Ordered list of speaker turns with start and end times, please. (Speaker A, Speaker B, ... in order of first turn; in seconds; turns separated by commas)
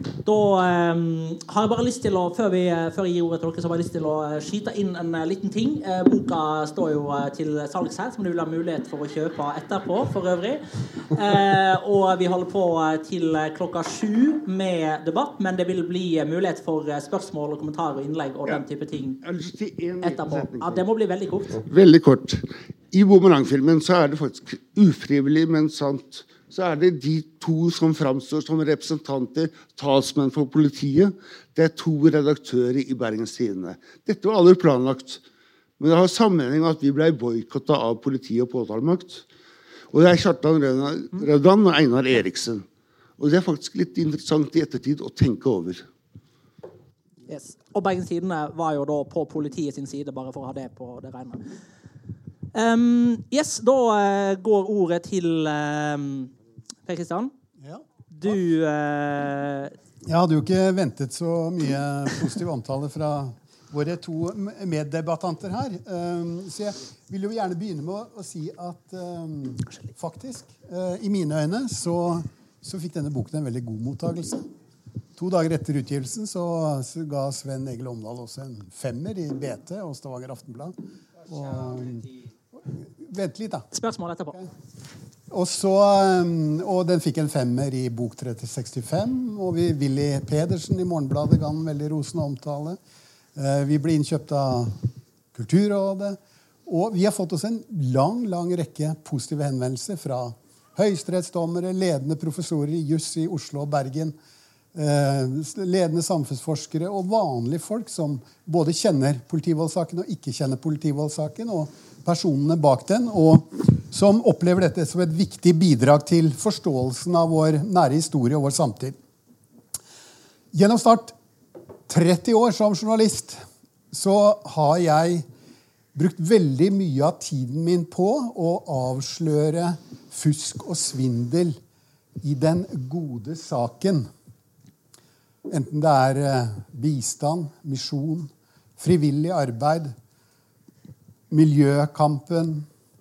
Speaker A: 0.2-19.2, Speaker B: 19.2-20.8, Speaker A: 20.0-21.6, Speaker B: 21.6-35.2, Speaker B: 35.8-39.2, Speaker B: 39.9-42.6, Speaker B: 43.2-45.8, Speaker A: 47.3-51.5, Speaker A: 52.5-56.3, Speaker A: 56.9-57.3, Speaker A: 58.1-59.7, Speaker C: 60.0-74.5, Speaker C: 75.2-80.7, Speaker C: 81.3-82.1, Speaker C: 83.0-83.7, Speaker A: 83.7-84.4, Speaker C: 85.3-92.8, Speaker C: 93.4-104.2, Speaker C: 104.7-119.0, Speaker C: 120.5-121.2, Speaker C: 121.9-123.4, Speaker C: 123.9-125.3, Speaker C: 126.0-131.6, Speaker C: 132.2-134.1, Speaker C: 135.5-139.9, Speaker C: 141.3-142.7